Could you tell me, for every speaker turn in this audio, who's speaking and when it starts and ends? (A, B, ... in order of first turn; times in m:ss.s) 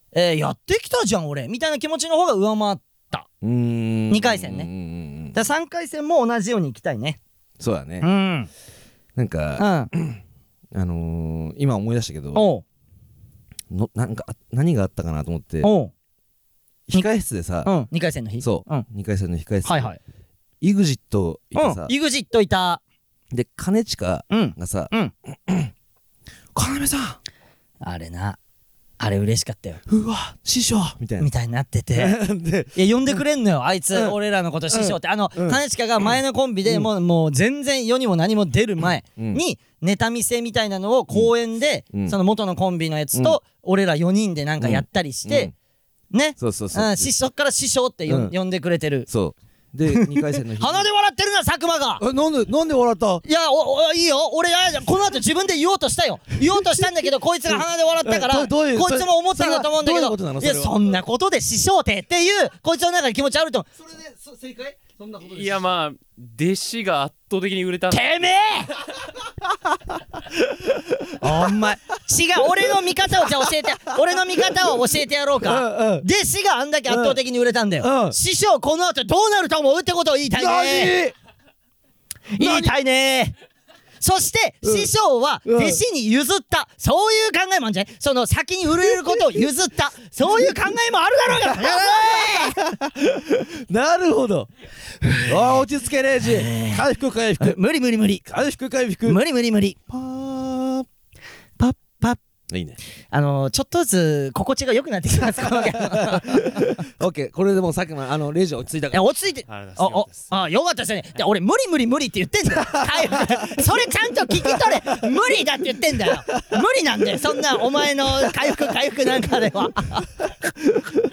0:00.1-0:03.3 A
0:03.4-0:05.4 B
0:04.1-0:04.7 A
0:05.3-0:07.2 A
0:07.6-0:08.1 B
0:08.0-0:08.5 A
0:09.2-0:10.2 B
0:09.6-0:09.9 A
0:10.7-0:12.4 B
0:12.3-0:12.6 A
0:13.7-0:15.7 B
0:15.6-0:15.9 A
0:16.9-0:17.7 B
0:17.6-0:18.8 A
0:18.4-0:19.9 B
0:19.6-0:20.0 A
0:20.6-0:21.9 B
0:21.5-0:22.8 A
0:23.3-0:25.7 B
0:24.3-0:25.1 A
0:26.5-0:27.2 B
0:27.8-0:28.4 A
0:29.0-0:29.8 A
0:29.9-0:31.3 B
0:31.2-0:32.2 A
0:31.9-0:33.2 B
0:32.7-0:45.5 A
0:34.7-0:36.1 B
0:43.1-0:43.4 B
0:44.6-0:45.5 B
0:46.1-0:49.1 A
0:46.4-0:47.1 B
0:48.1-0:48.3 B
0:49.1-0:50.9 B
0:49.9-0:52.0 A
0:52.0-0:53.2 B
0:53.2-1:03.7 A
0:57.5-1:01.0 B
1:03.9-1:05.3 B
1:05.1-1:08.0 C
1:07.9-1:08.7 A
1:11.1-1:11.8 B
1:11.2-1:21.0 A
1:12.6-1:13.6 B
1:15.4-1:16.0 B
1:16.9-1:17.2 B
1:17.8-1:18.2 B
1:20.4-1:21.1 B
1:22.3-1:23.3 A
1:22.4-1:22.8 B
1:24.0-1:32.6 A
1:24.6-1:24.9 B
1:25.4-1:25.8 B
1:28.8-1:29.5 B
1:30.3-1:30.6 B
1:31.3-1:34.5 B
1:35.0-1:37.6 B
1:36.2-1:36.8 A
1:37.4-1:38.2 A
1:38.2-1:39.2 B
1:39.0-1:39.8 A
1:39.9-1:40.9 B
1:41.6-1:42.2 A
1:42.5-1:42.8 B
1:43.1-1:46.7 A
1:45.3-1:49.0 B
1:48.9-2:00.1 A
1:49.5-1:50.3 C
1:52.8-1:53.3 B
1:56.3-1:56.6 B
1:58.1-1:58.7 B
2:00.7-2:01.0 B